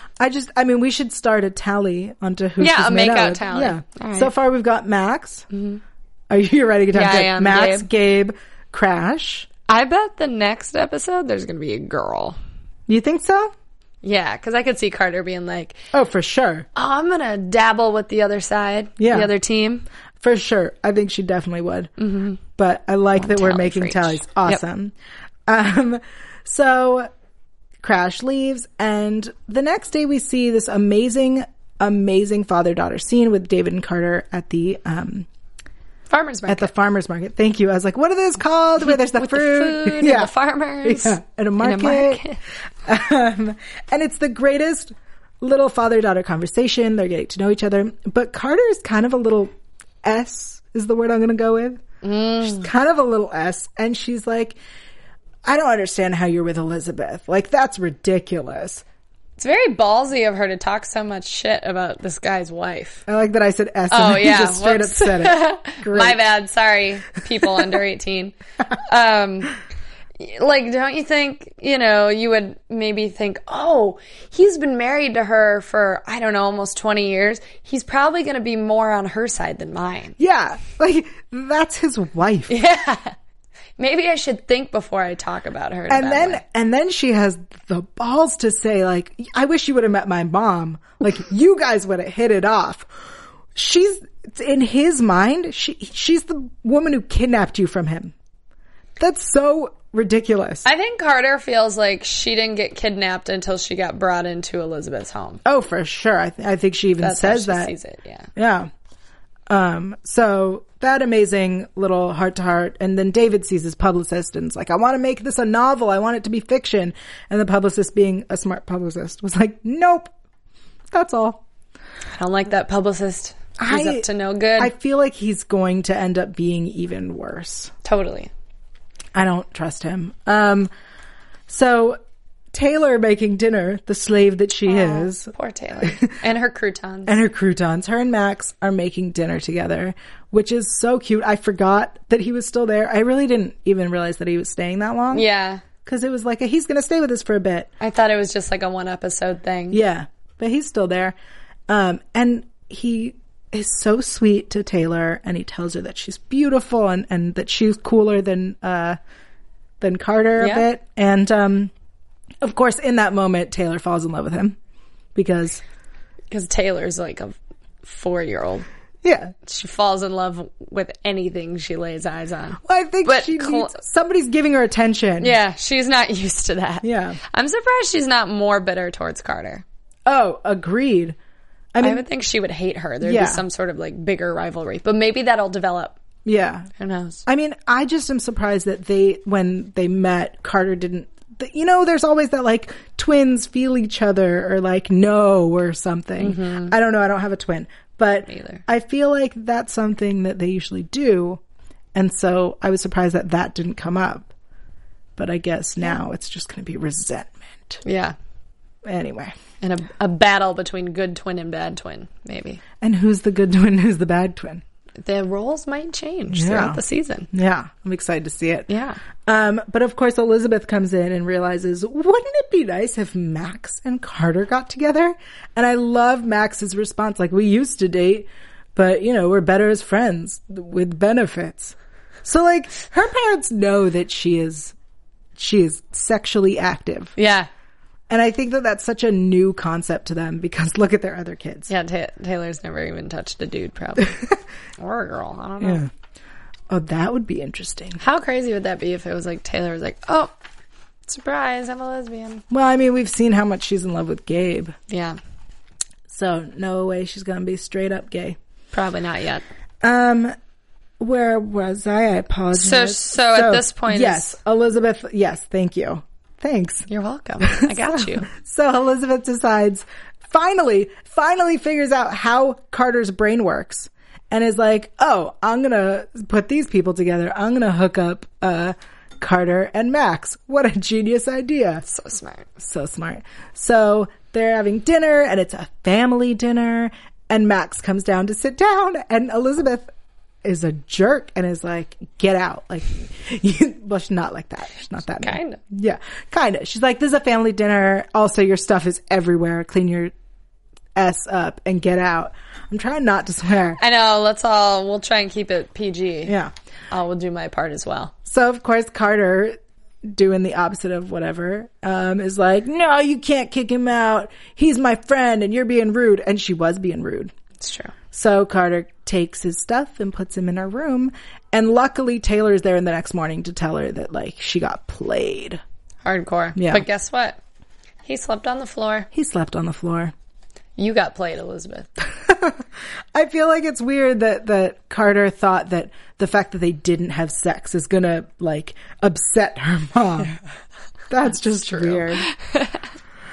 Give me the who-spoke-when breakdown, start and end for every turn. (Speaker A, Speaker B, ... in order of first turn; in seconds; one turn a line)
Speaker A: 0.2-5.5
Speaker B: 2.6-4.3
Speaker B: 5.5-5.8
Speaker A: 6.3-9.5
Speaker B: 6.9-7.9
Speaker B: 9.7-12.4
Speaker A: 12.9-13.5
Speaker B: 14.0-15.8
Speaker A: 15.9-16.7
Speaker B: 16.8-19.9
Speaker A: 19.0-19.3
Speaker A: 20.2-21.9
Speaker B: 22.0-22.4
Speaker A: 22.6-24.9
Speaker B: 23.2-24.6
Speaker A: 25.5-27.1
Speaker A: 27.8-35.3
Speaker B: 36.1-36.7
Speaker A: 36.5-42.2
Speaker B: 38.8-42.4
Speaker A: 42.9-49.5
Speaker A: 50.0-51.8
Speaker B: 52.0-52.7
Speaker A: 52.4-54.6
Speaker A: 55.5-58.8
Speaker B: 59.4-63.0
Speaker A: 63.1-66.2
Speaker B: 63.9-69.5
Speaker B: 70.2-80.2
Speaker A: 80.2-82.5
Speaker B: 82.5-83.2
Speaker B: 83.8-86.4
Speaker A: 85.9-92.9
Speaker A: 93.5-98.1
Speaker A: 99.0-100.7
Speaker B: 100.7-105.4
Speaker A: 105.5-107.7
Speaker B: 107.0-108.3
Speaker A: 108.4-108.7
Speaker A: 109.5-120.1
Speaker A: 120.9-121.4
Speaker B: 122.2-124.7
Speaker A: 123.6-127.7
Speaker B: 127.8-128.3
Speaker A: 129.1-130.7
Speaker A: 131.5-132.0
Speaker A: 132.5-135.3
Speaker B: 134.7-137.2
Speaker A: 135.8-136.1
Speaker A: 137.1-145.3
Speaker B: 145.1-145.6
Speaker A: 145.8-147.7
Speaker B: 147.8-149.8
Speaker A: 149.7-151.2
Speaker A: 151.7-159.0
Speaker A: 159.8-161.7
Speaker B: 160.4-160.7
Speaker A: 162.4-164.6
Speaker A: 165.2-165.6
Speaker B: 166.3-168.7
Speaker A: 169.0-169.3
Speaker B: 169.5-173.8
Speaker A: 172.6-175.4
Speaker B: 175.2-179.6
Speaker A: 176.8-177.2
Speaker A: 180.1-181.2
Speaker A: 181.7-182.0
Speaker B: 181.8-186.0
Speaker A: 183.0-183.4
Speaker A: 186.2-186.7
Speaker B: 186.8-187.2
Speaker A: 187.3-201.4
Speaker B: 196.2-196.7
Speaker B: 198.3-198.6
Speaker A: 201.9-204.3
Speaker A: 205.2-207.8
Speaker B: 207.8-208.2
Speaker A: 208.8-209.3
Speaker B: 209.6-212.6
Speaker A: 212.8-214.6
Speaker B: 215.0-217.3
Speaker A: 216.3-216.8
Speaker A: 217.3-218.7
Speaker B: 218.7-219.0
Speaker A: 219.3-234.8
Speaker A: 235.4-237.1
Speaker B: 237.2-237.5
Speaker A: 238.1-241.7
Speaker B: 241.7-244.2
Speaker B: 244.8-245.8
Speaker A: 245.6-245.9
Speaker A: 246.7-248.0
Speaker B: 248.0-250.3
Speaker B: 251.1-252.4
Speaker A: 252.5-254.8
Speaker B: 254.9-255.2
Speaker A: 256.1-258.4
Speaker B: 258.7-259.4
Speaker A: 259.8-260.4
Speaker A: 261.0-266.9
Speaker B: 262.5-264.4
Speaker B: 266.9-268.3
Speaker A: 267.4-281.9
Speaker B: 281.9-282.6
Speaker A: 282.6-289.9
Speaker A: 290.4-300.1
Speaker B: 295.2-295.6
Speaker A: 301.0-303.8
Speaker B: 303.8-306.3
Speaker A: 306.3-306.5
Speaker B: 306.9-308.1
Speaker A: 308.3-317.3
Speaker B: 317.6-317.9
Speaker A: 318.1-325.6
Speaker B: 326.1-327.4
Speaker A: 326.6-326.9
Speaker B: 328.1-329.1
Speaker A: 329.1-330.1
Speaker B: 330.8-331.9
Speaker A: 332.2-340.4
Speaker A: 341.1-342.3
Speaker B: 341.7-342.7